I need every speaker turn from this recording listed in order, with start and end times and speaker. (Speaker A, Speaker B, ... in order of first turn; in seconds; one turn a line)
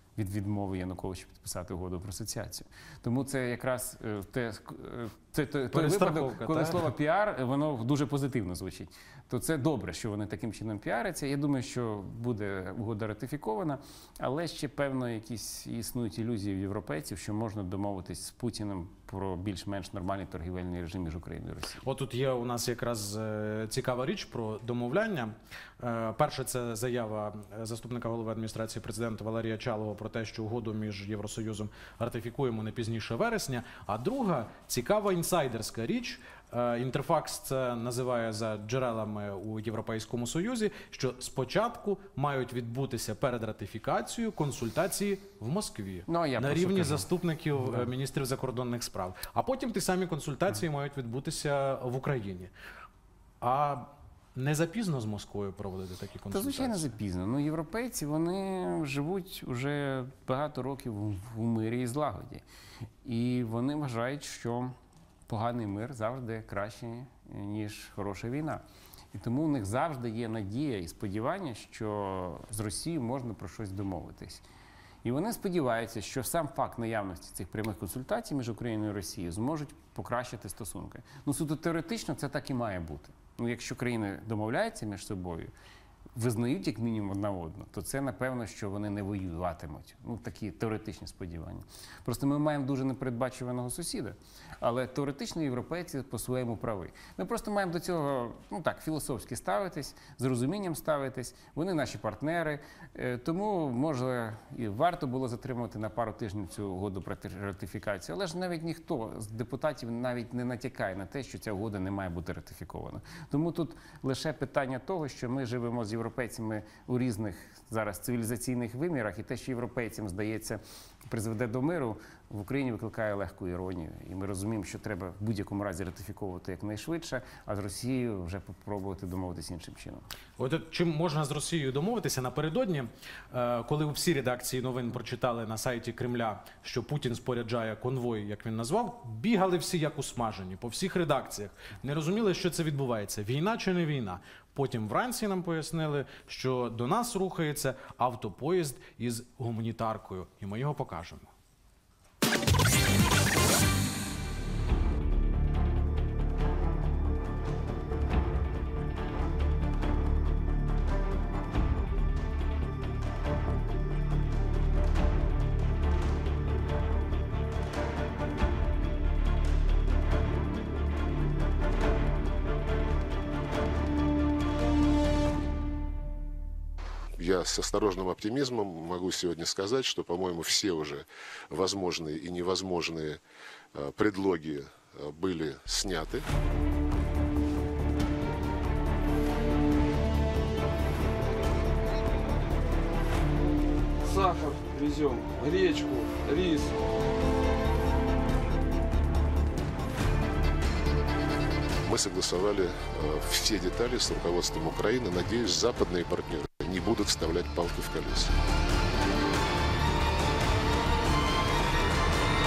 Speaker A: 0.2-21.9
Speaker B: 5.7-6.9
Speaker B: 21.8-52.5
Speaker A: 46.1-47.1
Speaker A: 47.6-47.9
Speaker B: 53.4-57.0
Speaker A: 56.3-62.4
Speaker A: 63.0-64.8
Speaker A: 65.3-68.6
Speaker A: 69.1-74.4
Speaker A: 75.0-85.5
Speaker A: 86.2-130.1
Speaker B: 130.4-151.3
Speaker C: 177.2-183.2
Speaker C: 183.7-186.2
Speaker D: 194.0-196.8
Speaker C: 201.8-208.3